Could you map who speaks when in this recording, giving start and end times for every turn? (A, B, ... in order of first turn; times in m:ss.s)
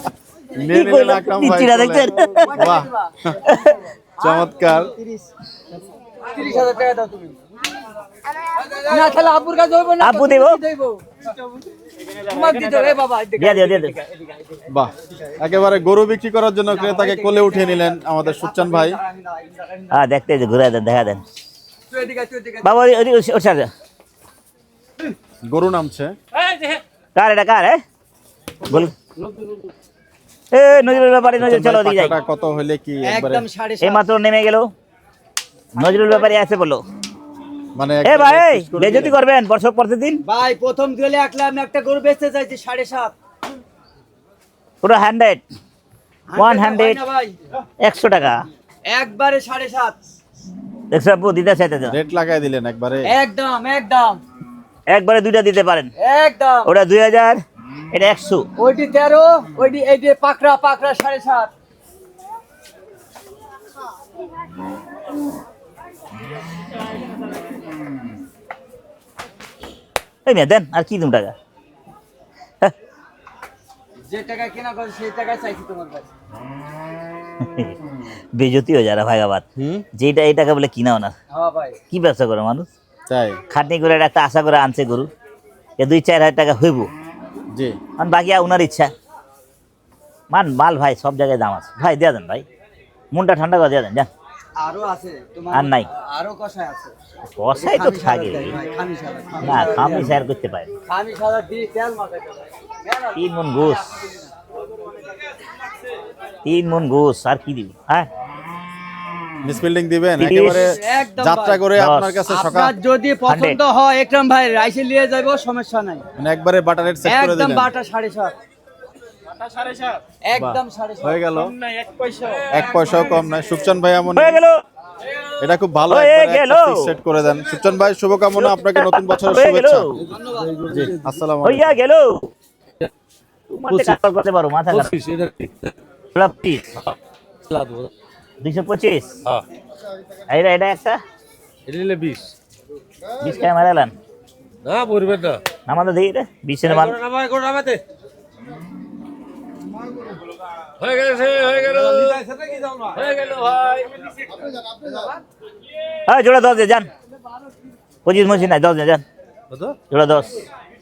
0:00.5-0:03.4 A
0:00.7-0:02.8 B
0:02.4-0:03.1 C
0:03.4-0:03.8 B
0:04.2-0:05.3 C
0:04.2-0:04.9 A
0:06.2-0:07.4 C
0:08.8-0:11.0 C
0:10.0-0:10.6 B
0:12.2-0:14.6 C
0:13.4-0:13.9 B
0:14.7-0:19.0 A
0:16.7-0:20.0 C
0:19.9-0:21.2 B
0:21.9-0:22.8 C
0:22.6-0:23.7 B
0:25.4-0:26.1 A
0:26.3-0:26.8 D
0:27.2-0:27.8 B
0:28.7-0:28.9 B
0:29.1-0:29.7 D
0:30.5-0:32.1 B
0:31.4-0:33.4 A
0:33.0-0:34.0 C
0:33.8-0:34.7 B
0:35.8-0:36.8 B
0:37.7-0:39.2 A
0:38.0-0:40.2 B
0:40.2-0:43.1 C
0:44.8-0:45.4 B
0:46.3-0:47.4 C
0:46.4-0:47.0 B
0:47.8-0:48.4 B
0:48.9-0:50.0 C
0:50.9-0:51.9 B
0:51.8-0:53.1 A
0:53.0-0:54.2 C
0:54.9-0:55.9 B
0:56.0-0:56.7 C
0:56.6-0:58.4 B
0:58.6-1:01.5 C
1:10.2-1:11.3 B
1:14.0-1:16.1 C
1:17.4-1:17.7 B
1:18.3-1:19.4 B
1:19.6-1:19.8 A
1:20.0-1:21.1 B
1:21.3-1:21.8 C
1:21.9-1:22.7 B
1:23.1-1:23.4 A
1:23.5-1:25.1 B
1:25.8-1:26.9 B
1:27.5-1:27.8 A
1:28.0-1:28.9 B
1:30.3-1:32.4 B
1:33.1-1:34.1 B
1:34.6-1:36.9 C
1:35.5-1:35.9 B
1:37.4-1:38.5 B
1:37.5-1:40.2 C
1:39.4-1:40.7 B
1:40.9-1:43.2 C
1:43.1-1:43.9 B
1:46.4-1:48.1 B
1:49.4-1:52.8 A
1:50.2-1:50.7 B
1:50.4-1:51.6 C
1:51.8-1:52.2 B
1:52.3-1:56.0 C
1:53.3-1:53.6 B
1:56.2-1:57.7 A
1:57.0-1:58.3 C
2:00.2-2:01.4 C
2:00.4-2:01.5 A
2:01.9-2:03.4 D
2:02.5-2:04.4 A
2:04.1-2:04.6 B
2:05.4-2:09.9 A
2:05.9-2:06.9 B
2:08.4-2:10.0 B
2:10.0-2:10.6 C
2:10.7-2:11.8 A
2:11.4-2:12.3 B
2:13.5-2:14.9 B
2:14.7-2:15.7 D
2:16.1-2:16.7 B
2:17.5-2:17.9 D
2:18.4-2:19.1 B
2:20.3-2:21.0 B
2:21.6-2:22.3 D
2:23.2-2:23.9 B
2:24.6-2:25.4 D
2:25.7-2:27.0 B
2:26.6-2:27.8 D
2:30.8-2:34.0 D
2:36.1-2:36.9 B
2:38.0-2:39.0 B
2:39.5-2:39.8 D
2:39.9-2:40.4 B